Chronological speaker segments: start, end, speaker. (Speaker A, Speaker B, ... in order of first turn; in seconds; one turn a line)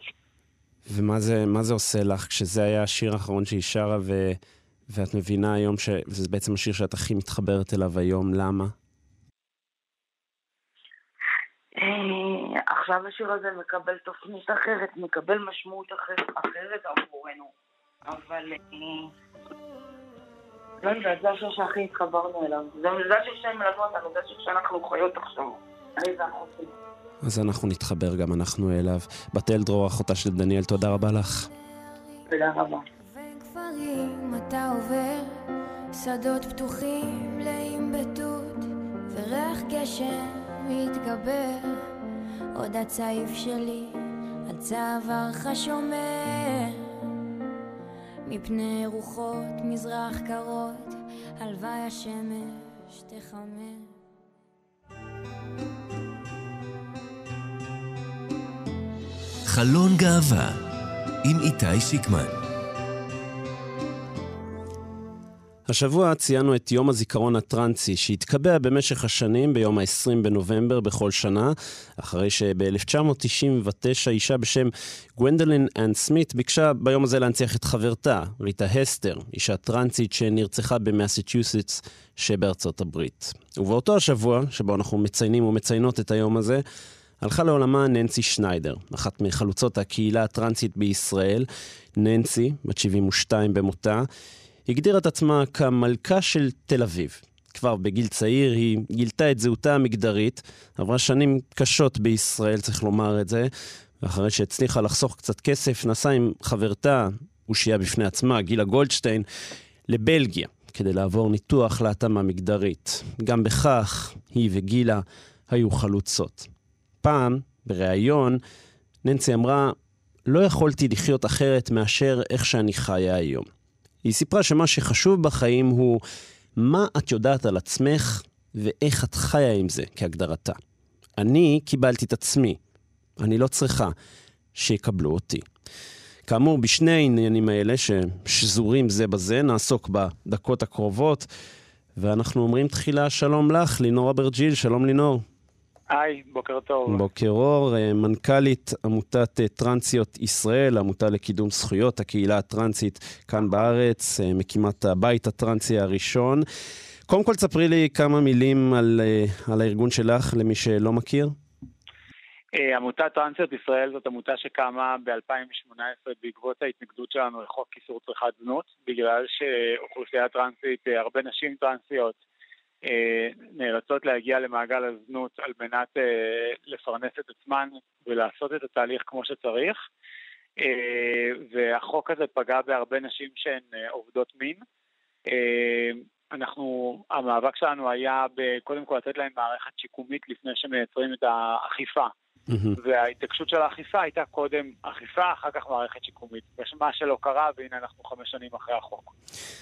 Speaker A: 0.9-8.7
Speaker B: 11.8-17.5
Speaker B: 18.1-19.1
Speaker B: 20.8-26.7
Speaker A: 27.2-31.5
Speaker B: 32.3-32.8
Speaker C: 33.1-41.9
Speaker C: 42.5-47.0
Speaker C: 48.3-54.0
Speaker D: 59.5-60.6
Speaker D: 61.2-62.4
Speaker A: 65.7-86.6
Speaker A: 87.2-94.1
Speaker A: 94.7-109.3
Speaker A: 109.9-116.5
Speaker A: 117.0-118.4
Speaker A: 119.0-119.8
Speaker A: 120.3-123.5
Speaker A: 124.0-126.0
Speaker A: 126.6-130.6
Speaker A: 131.2-132.6
Speaker A: 133.2-133.9
Speaker A: 134.6-135.5
Speaker A: 136.3-141.3
Speaker A: 142.0-145.2
Speaker E: 145.9-147.0
Speaker A: 146.9-156.4
Speaker A: 157.1-161.4
Speaker E: 162.6-172.2
Speaker E: 172.8-179.8
Speaker E: 180.6-184.6
Speaker E: 185.3-192.1
Speaker A: 192.5-192.8
Speaker E: 192.8-199.1